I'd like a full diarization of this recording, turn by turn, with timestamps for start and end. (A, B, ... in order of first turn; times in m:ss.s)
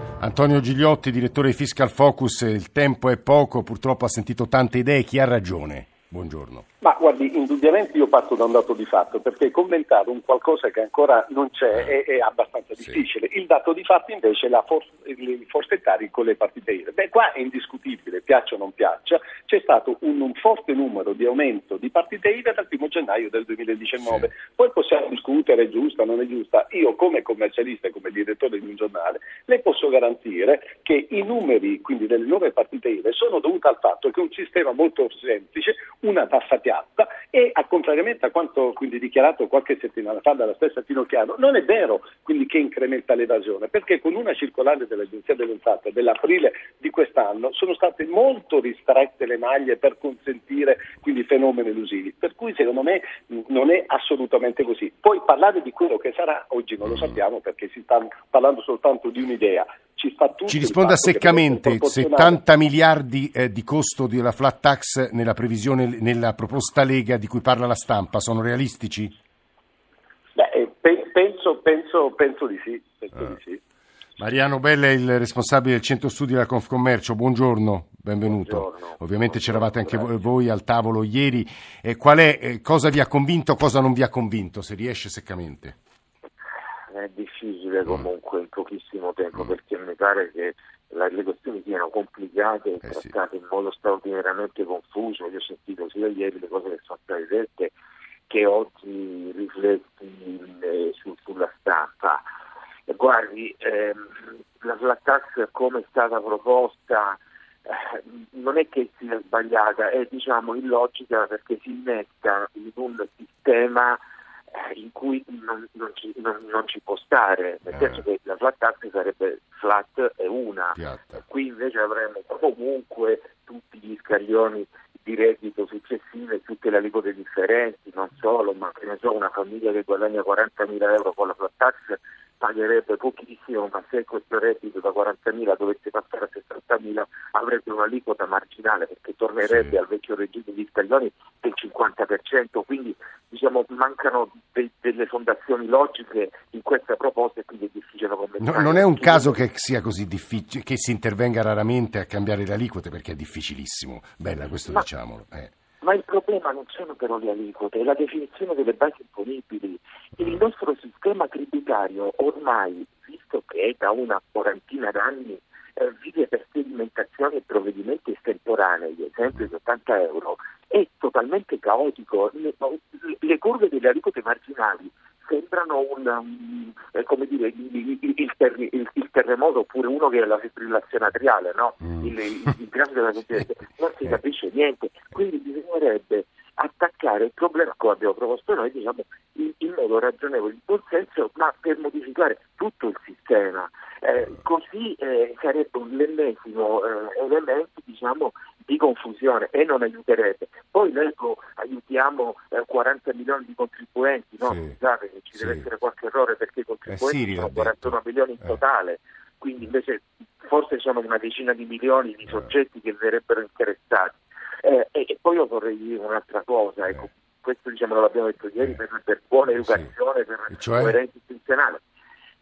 0:00.2-0:06.6 A
0:06.8-1:02.4 B
0:56.8-0:57.2 A
1:00.5-1:09.1 A
1:10.4-1:13.6 B
1:14.2-1:25.8 A
1:18.2-1:20.2 C
1:26.9-1:37.7 C
1:32.8-1:33.1 A
1:38.3-1:42.2 C
1:42.9-1:44.1 C
1:44.6-1:54.0 C
1:54.5-2:29.4 C
1:57.7-1:58.0 A
2:00.8-2:01.2 A
2:19.4-2:19.8 A
2:28.4-2:35.5 A
2:35.8-3:41.8 C
3:24.4-3:24.8 A
3:25.3-3:25.6 A
3:26.9-3:28.6 A
3:39.5-3:39.9 A
3:40.5-3:41.0 A